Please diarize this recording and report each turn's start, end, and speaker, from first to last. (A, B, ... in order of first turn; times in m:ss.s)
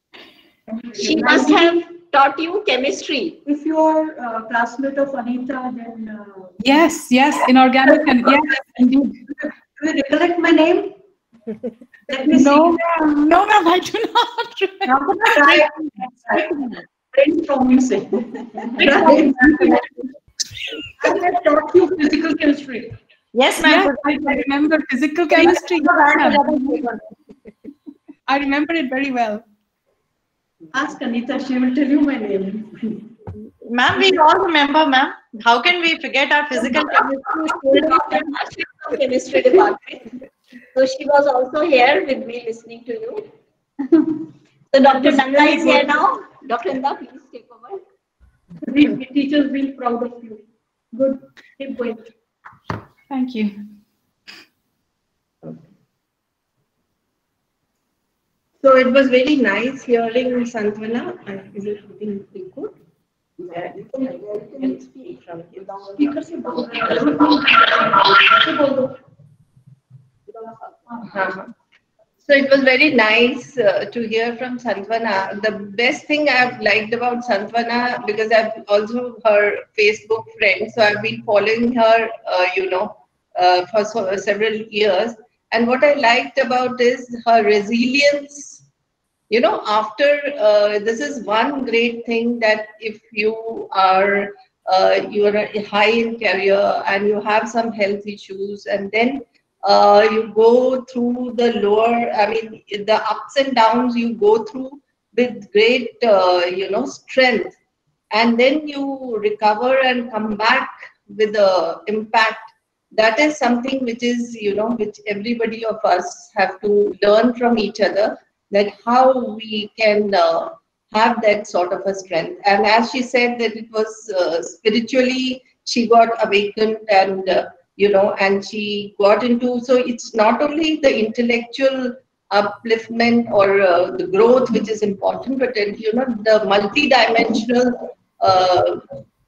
0:00.7-0:01.7 A
0:01.0-0:03.4 B
0:03.4-0:06.8 A
0:06.6-0:09.2 C
0:07.8-0:08.6 A
0:09.8-0:10.9 A
0:12.1-0:12.8 A
0:12.3-0:15.4 C
0:14.8-0:16.5 D
0:17.1-0:19.9 A
0:18.8-0:19.4 D
0:18.9-0:19.6 C
0:21.0-0:22.9 A
0:23.3-0:24.5 D
0:23.6-0:26.9 C
0:25.3-0:27.0 D
0:28.3-0:29.4 C
0:30.7-0:33.0 A
0:33.6-0:37.3 D
0:36.6-0:38.4 A
0:37.7-0:40.1 B
0:40.7-0:43.2 B
0:44.7-0:47.8 B
0:44.9-0:46.0 A
0:48.6-0:52.1 A
0:53.1-0:53.6 C
0:58.6-1:02.7 E
1:03.5-1:06.2 E
1:03.9-1:05.1 B
1:06.0-1:08.9 A
1:10.4-1:11.0 A
1:11.1-1:11.5 E
1:12.2-1:28.6 E
1:29.3-1:47.5 E
1:48.1-2:18.9 E